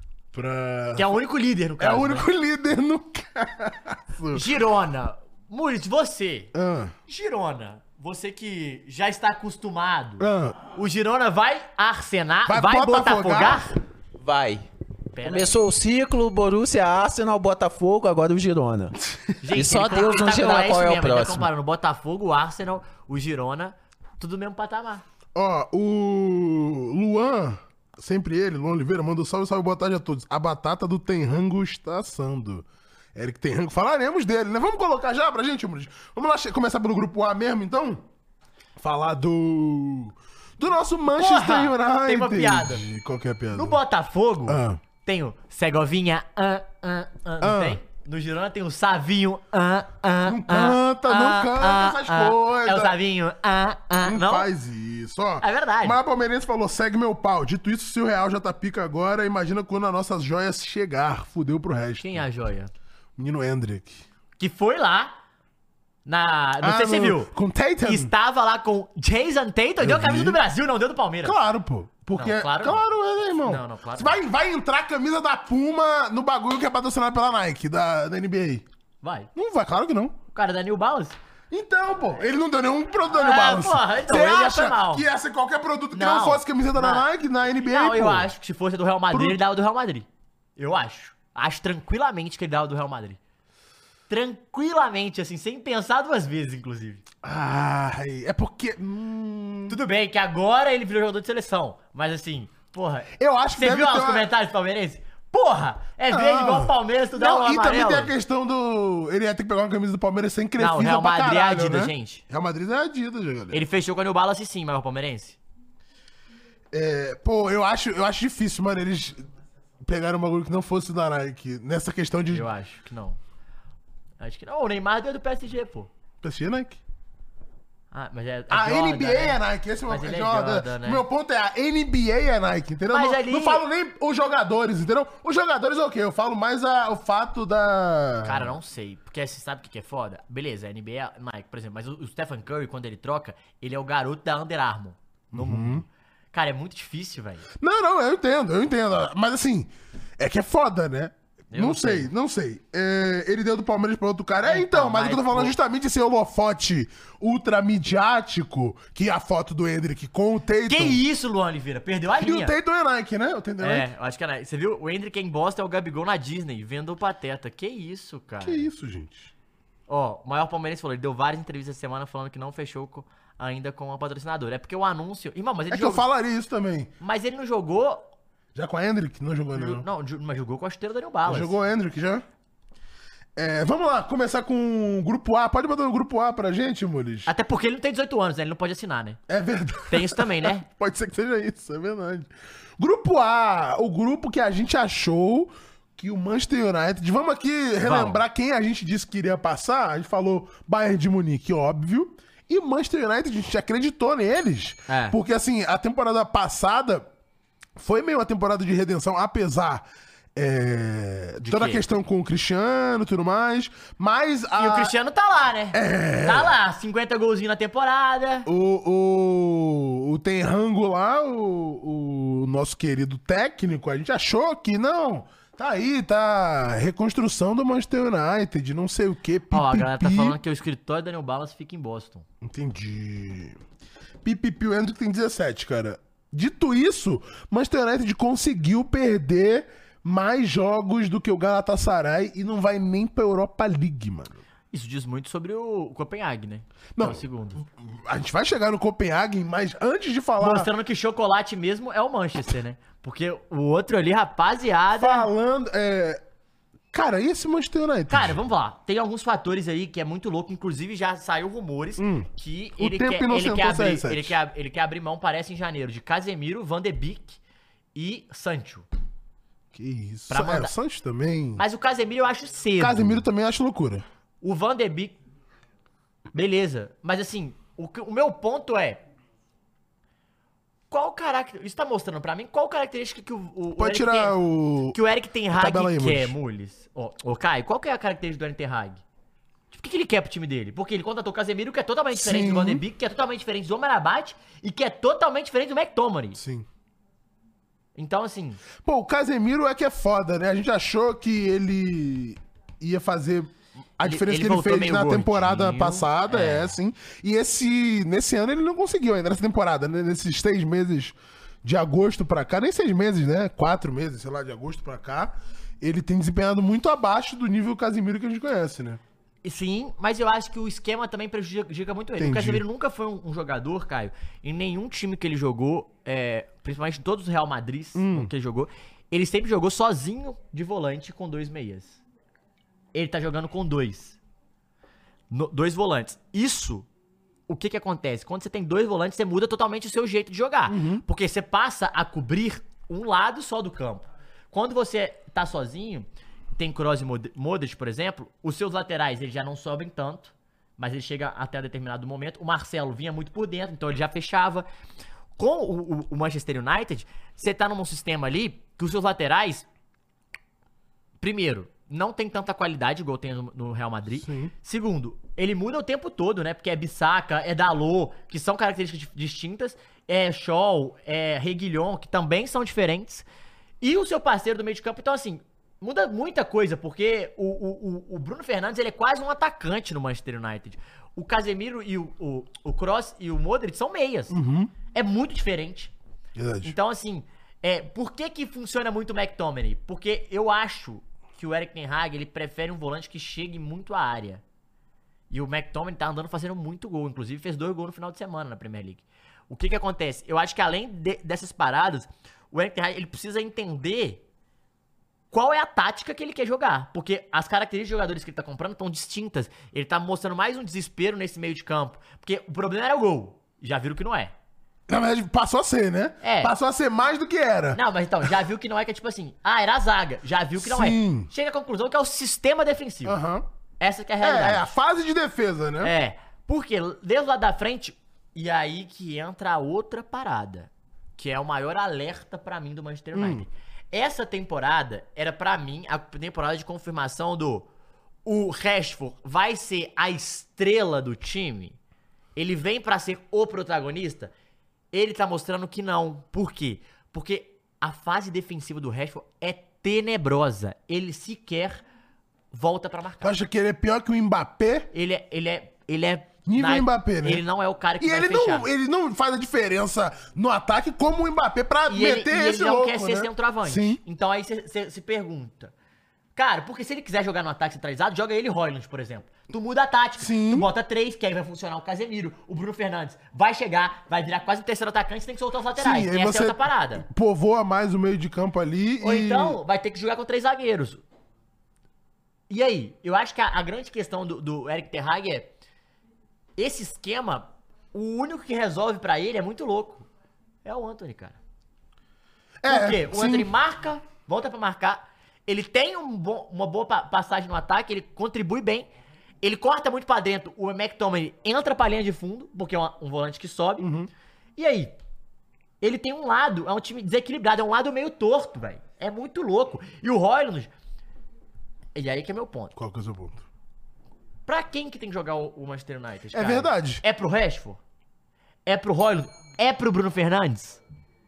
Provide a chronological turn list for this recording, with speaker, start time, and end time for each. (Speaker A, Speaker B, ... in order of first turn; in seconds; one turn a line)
Speaker A: 0.3-1.2
Speaker B: 0.9-2.3
Speaker A: 1.8-4.5
Speaker B: 4.3-6.5
Speaker A: 6.5-6.9
Speaker B: 7.1-13.8
Speaker A: 10.2-10.6
Speaker A: 12.5-13.7
Speaker C: 14.2-14.7
Speaker B: 15.1-15.6
Speaker C: 15.2-21.5
Speaker B: 19.4-25.0
Speaker A: 25.4-38.0
Speaker A: 38.8-43.8
Speaker B: 41.1-42.9
Speaker B: 43.5-54.5
Speaker A: 44.5-44.8
Speaker A: 47.4-47.8
Speaker A: 50.2-53.0
Speaker A: 54.0-62.3
Speaker B: 55.4-56.0
Speaker B: 62.0-62.7
Speaker A: 63.2-64.0
Speaker B: 64.4-65.1
Speaker B: 66.1-71.4
Speaker A: 66.6-68.1
Speaker A: 69.8-70.4
Speaker A: 71.2-78.7
Speaker B: 72.1-72.8
Speaker B: 73.5-74.2
Speaker B: 79.0-79.3
Speaker A: 79.3-80.2
Speaker B: 80.3-81.2
Speaker A: 81.5-88.3
Speaker B: 83.1-85.1
Speaker B: 85.9-87.1
Speaker B: 87.6-93.2
Speaker A: 89.1-89.4
Speaker B: 94.1-97.0
Speaker A: 97.2-99.8
Speaker B: 99.7-108.1
Speaker A: 103.1-104.3
Speaker A: 106.1-113.6
Speaker B: 110.6-112.2
Speaker B: 113.5-115.4
Speaker A: 116.7-119.3
Speaker A: 119.8-122.5
Speaker B: 122.3-123.2
Speaker B: 124.2-125.9
Speaker A: 126.2-126.8
Speaker B: 127.9-131.0
Speaker A: 128.5-138.5
Speaker B: 132.9-133.7
Speaker B: 138.2-147.5
Speaker A: 145.3-145.8
Speaker A: 147.6-161.0
Speaker B: 151.5-152.1
Speaker B: 154.4-155.6
Speaker B: 160.7-162.5
Speaker A: 162.1-163.9
Speaker B: 163.6-168.7
Speaker A: 168.4-169.3
Speaker B: 169.9-176.1
Speaker A: 175.7-176.9
Speaker B: 177.0-178.1
Speaker A: 178.6-179.8
Speaker B: 179.5-181.6
Speaker A: 181.3-182.2
Speaker A: 183.4-187.3
Speaker B: 187.3-189.2
Speaker A: 189.3-207.1
Speaker B: 189.9-190.7
Speaker B: 197.8-198.2
Speaker B: 204.9-205.2
Speaker A: 207.8-214.9
Speaker B: 211.4-211.8
Speaker B: 214.6-218.5
Speaker A: 215.7-216.6
Speaker A: 218.5-230.4
Speaker B: 229.5-232.3
Speaker A: 232.4-233.6
Speaker A: 234.2-244.4
Speaker B: 244.7-247.6
Speaker A: 247.0-250.7
Speaker B: 250.4-255.3
Speaker A: 254.9-256.2
Speaker A: 256.9-258.4
Speaker B: 258.1-267.4
Speaker A: 262.0-264.4
Speaker B: 267.9-268.9
Speaker A: 269.7-271.6
Speaker B: 270.3-270.7
Speaker B: 271.6-273.2
Speaker A: 272.8-274.0
Speaker B: 274.4-275.2
Speaker B: 276.3-279.0
Speaker B: 280.9-284.4
Speaker A: 283.8-285.0
Speaker B: 284.9-289.0
Speaker A: 285.5-286.4
Speaker B: 289.7-296.4
Speaker A: 292.1-292.8
Speaker A: 296.4-296.7
Speaker B: 298.0-298.6
Speaker A: 298.8-319.0
Speaker B: 304.0-306.8
Speaker B: 319.4-332.0
Speaker A: 322.2-322.6
Speaker A: 327.9-328.3
Speaker B: 332.9-334.2
Speaker B: 335.3-336.9
Speaker B: 337.5-354.7
Speaker A: 340.7-341.0
Speaker B: 355.4-359.7
Speaker B: 361.2-373.2
Speaker A: 364.2-364.5
Speaker B: 373.8-384.4
Speaker A: 384.3-384.7
Speaker B: 384.9-385.9
Speaker A: 386.4-386.8
Speaker B: 386.6-394.4
Speaker B: 395.3-404.2
Speaker B: 405.3-414.3
Speaker A: 414.9-418.3
Speaker B: 416.2-416.5
Speaker B: 417.7-423.2
Speaker A: 420.6-421.3
Speaker A: 423.0-423.4
Speaker B: 423.8-424.7
Speaker A: 424.2-425.9
Speaker B: 425.8-437.7
Speaker A: 433.1-433.5
Speaker B: 438.2-441.8
Speaker B: 442.4-444.3
Speaker B: 444.9-451.8
Speaker B: 452.5-453.3
Speaker A: 453.2-454.9
Speaker B: 454.9-458.7
Speaker A: 456.5-457.4
Speaker A: 458.0-464.0
Speaker B: 461.9-465.7
Speaker B: 466.4-477.1
Speaker A: 470.2-470.7
Speaker A: 475.8-479.6
Speaker B: 479.0-481.0
Speaker B: 482.5-485.5
Speaker B: 486.6-490.1
Speaker B: 490.6-491.4
Speaker A: 492.6-493.5
Speaker B: 492.7-498.9
Speaker B: 499.4-503.9
Speaker A: 503.8-504.1
Speaker B: 504.6-504.9
Speaker B: 505.8-510.7
Speaker B: 511.9-512.7
Speaker A: 512.8-513.5
Speaker B: 514.5-517.8
Speaker A: 516.3-517.0
Speaker B: 518.7-520.8